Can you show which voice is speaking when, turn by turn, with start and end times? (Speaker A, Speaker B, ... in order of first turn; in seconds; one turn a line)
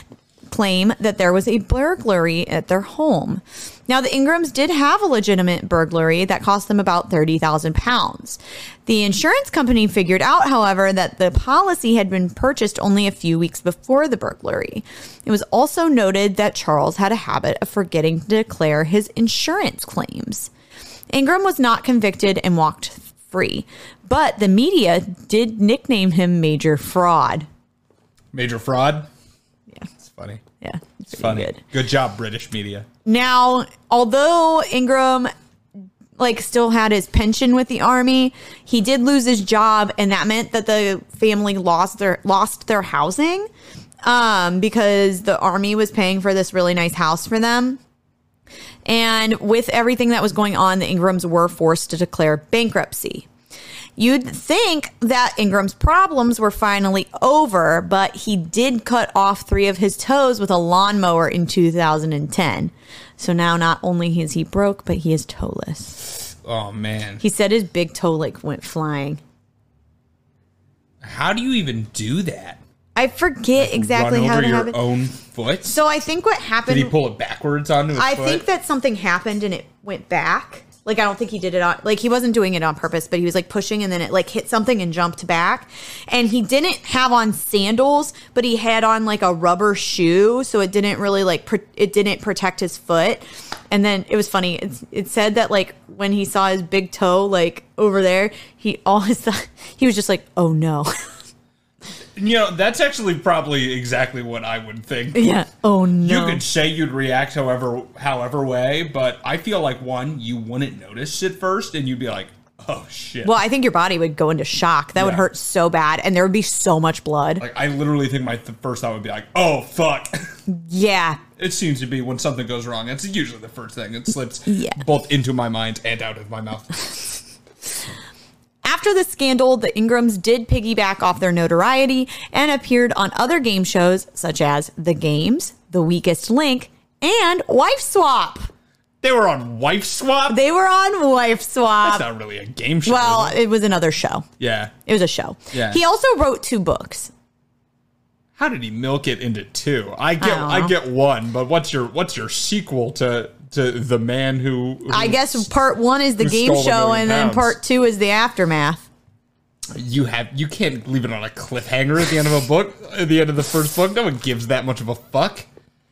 Speaker A: 0.5-20.5
Speaker A: 21.1-27.5
Speaker B: 28.3-29.1
Speaker B: 30.0-30.4
Speaker A: 30.6-31.6
Speaker B: 31.1-32.9
Speaker A: 33.0-35.3
Speaker A: 36.2-43.5
Speaker A: 44.0-47.8
Speaker A: 48.9-53.3
Speaker A: 54.0-66.0
Speaker B: 66.2-67.2
Speaker A: 67.2-69.2
Speaker B: 71.0-72.6
Speaker A: 73.0-74.8
Speaker B: 73.6-75.8
Speaker A: 75.7-76.9
Speaker B: 76.7-78.4
Speaker A: 78.0-100.9
Speaker B: 102.2-105.4
Speaker A: 105.2-106.4
Speaker B: 106.0-113.4
Speaker A: 113.2-117.4
Speaker B: 115.0-115.3
Speaker B: 117.4-120.3
Speaker A: 120.5-121.2
Speaker B: 121.4-127.2
Speaker A: 124.5-124.8
Speaker A: 128.6-138.5
Speaker B: 139.0-140.4
Speaker A: 140.3-142.1
Speaker B: 141.8-143.4
Speaker A: 142.9-144.3
Speaker B: 144.4-144.7
Speaker A: 144.9-147.1
Speaker B: 145.5-145.8
Speaker B: 148.4-155.5
Speaker A: 150.2-150.8
Speaker A: 154.9-158.9
Speaker B: 156.2-157.6
Speaker B: 159.7-165.5